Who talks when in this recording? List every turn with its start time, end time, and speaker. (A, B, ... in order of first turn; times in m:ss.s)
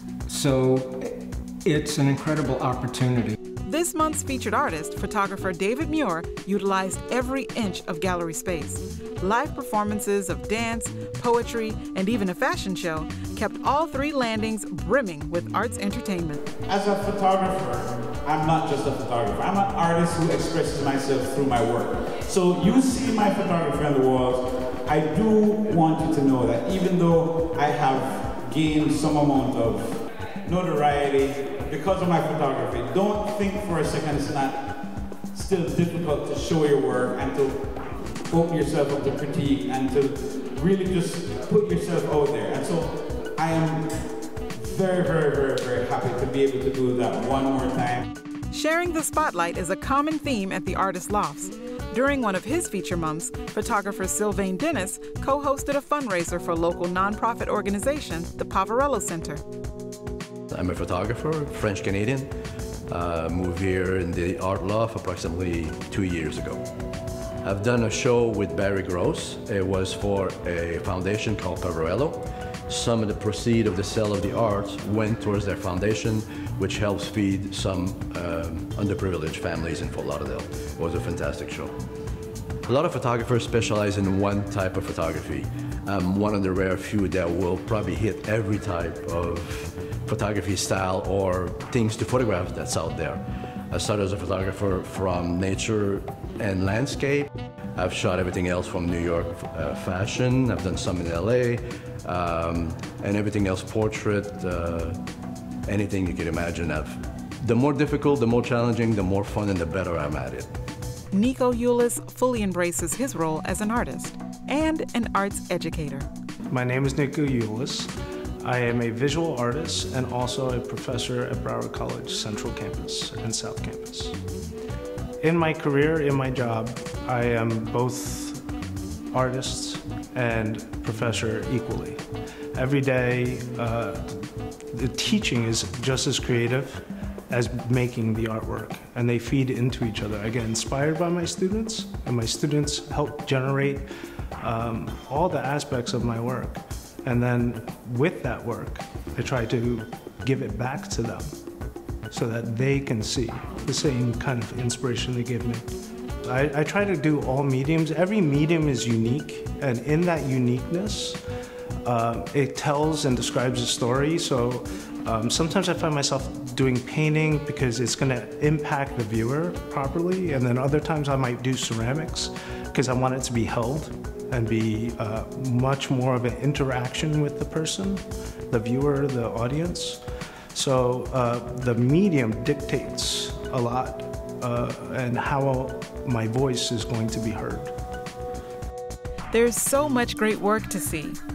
0:00.3-0:03.4 A
0:03.6-0:16.4 B
0:16.6-0:44.0 C
0:44.5-0:48.0 C
0:48.5-0:59.4 B
1:00.5-1:02.3 D
1:02.9-1:06.6 D
1:07.4-1:21.7 D
1:22.6-1:45.0 D
1:45.6-1:50.5 D
1:51.1-1:56.1 B
1:56.5-1:57.9 E
1:58.4-2:04.2 E
2:05.2-2:08.4 E
2:09.1-2:12.0 E
2:12.5-2:14.0 E
2:14.7-2:23.9 E
2:24.4-2:31.3 E
2:32.1-2:35.7 E
2:36.2-2:41.2 E
2:41.8-3:00.0 E
3:00.5-3:07.7 E
3:09.3-3:11.2 B